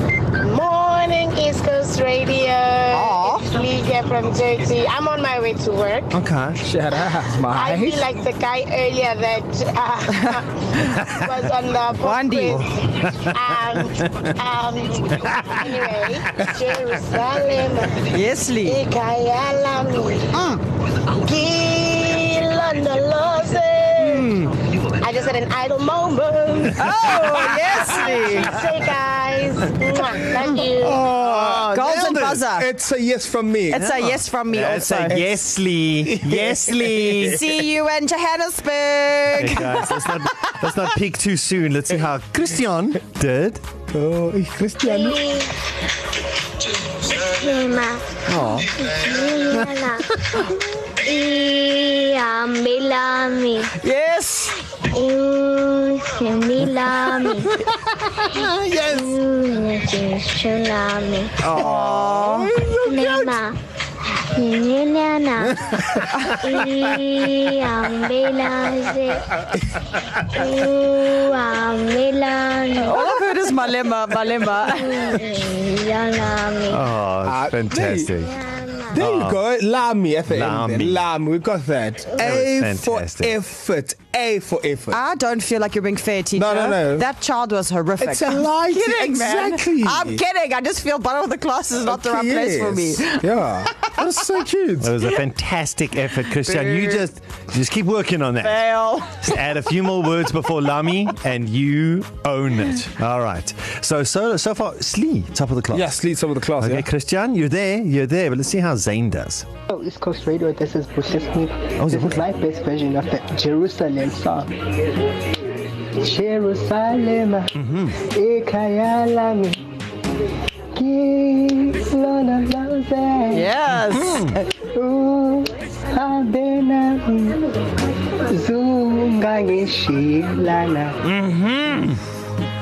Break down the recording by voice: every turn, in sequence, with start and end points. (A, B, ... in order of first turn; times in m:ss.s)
0:00.4-0:06.1 A
0:02.9-0:03.5 B
0:06.1-0:06.6 C
0:06.6-0:08.1 D
0:07.5-0:18.1 A
0:10.1-0:11.0 B
0:12.0-0:12.6 B
0:12.5-0:14.2 C
0:15.2-0:15.9 C
0:18.0-0:18.8 B
0:18.6-0:20.3 A
0:20.3-0:20.6 B
0:21.0-0:24.4 A
0:24.2-0:24.4 C
0:25.0-0:26.8 A
0:26.7-0:28.6 B
0:26.9-0:28.4 D
0:27.9-0:31.0 A
0:30.4-0:30.6 B
0:30.7-0:32.4 C
0:31.0-0:31.7 D
0:31.6-0:32.7 B
0:32.5-0:33.9 D
0:33.7-0:35.2 B
0:33.7-0:37.4 C
0:35.0-0:35.4 D
0:36.0-0:37.4 D
0:37.0-0:40.7 B
0:39.4-0:43.6 C
0:43.9-0:45.4 D
0:44.8-0:45.5 E
0:47.2-0:48.2 E
0:48.3-0:48.7 B
0:48.8-0:53.7 E
0:53.8-0:54.5 B
0:54.9-0:57.5 E
0:57.5-0:59.1 C
0:58.3-1:01.5 E
1:01.4-1:02.5 B
1:01.5-1:03.3 D
1:02.8-1:03.6 E
1:04.2-1:05.6 E
1:05.4-1:07.0 C
1:06.2-1:09.3 E
1:10.3-1:13.1 E
1:12.8-1:15.2 B
1:14.7-1:16.8 E
1:16.7-1:18.3 C
1:17.2-1:18.1 D
1:18.3-1:18.9 E
1:18.9-1:25.0 D
1:18.9-1:19.4 C
1:20.3-1:21.0 C
1:22.2-1:23.4 C
1:24.9-1:33.2 B
1:26.4-1:27.1 D
1:28.0-1:30.2 D
1:31.8-1:34.9 D
1:34.8-1:45.9 C
1:36.3-1:37.0 B
1:38.4-1:39.5 B
1:45.7-1:46.9 D
1:46.6-1:49.4 C
1:49.7-1:54.5 F
1:51.8-1:52.2 C
1:56.0-1:57.5 F
1:57.6-1:58.0 C
1:58.0-1:59.6 F
2:00.8-2:03.4 F
2:03.3-2:04.4 B
2:03.8-2:04.4 C
2:04.7-2:07.3 F
2:08.3-2:11.0 F
2:11.1-2:12.0 C